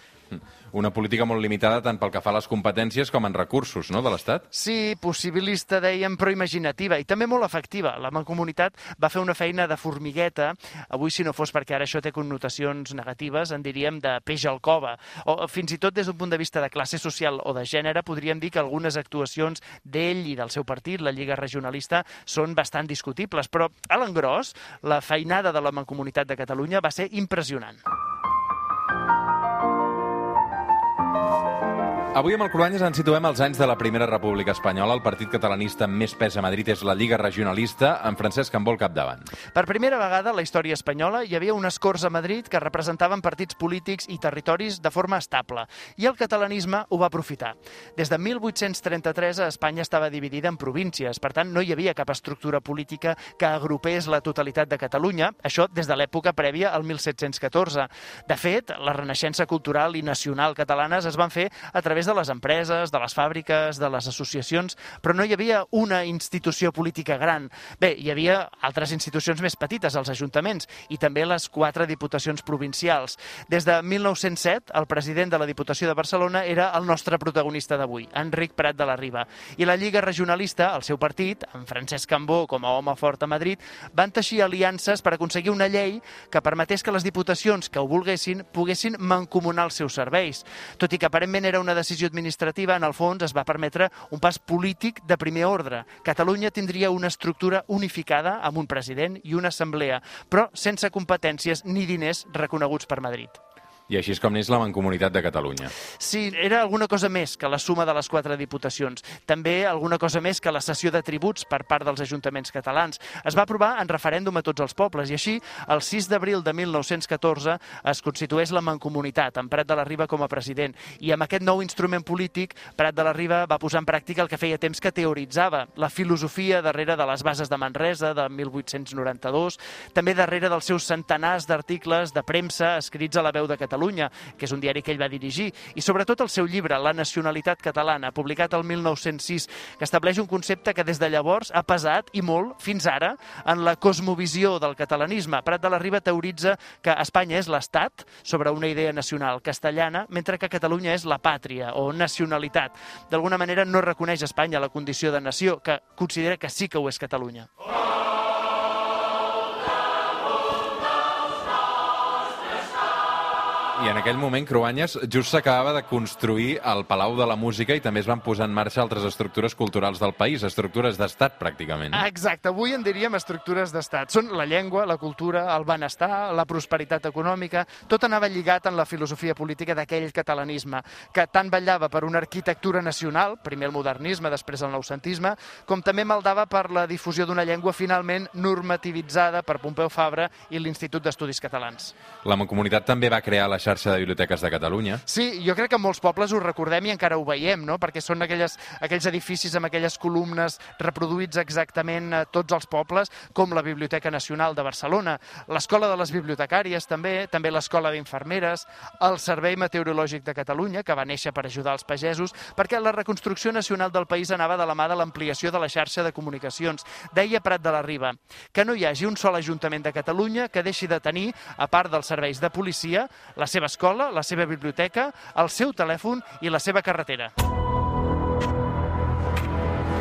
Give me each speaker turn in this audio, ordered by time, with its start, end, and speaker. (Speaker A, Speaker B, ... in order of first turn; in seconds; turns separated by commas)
Speaker A: 0.3-4.5, Speaker B: 4.5-27.8, Speaker A: 32.1-39.3, Speaker B: 39.5-103.4, Speaker A: 103.9-105.7, Speaker B: 106.0-157.5, Speaker A: 163.8-172.0, Speaker B: 171.9-191.9, Speaker A: 192.2-195.0, Speaker B: 195.1-227.3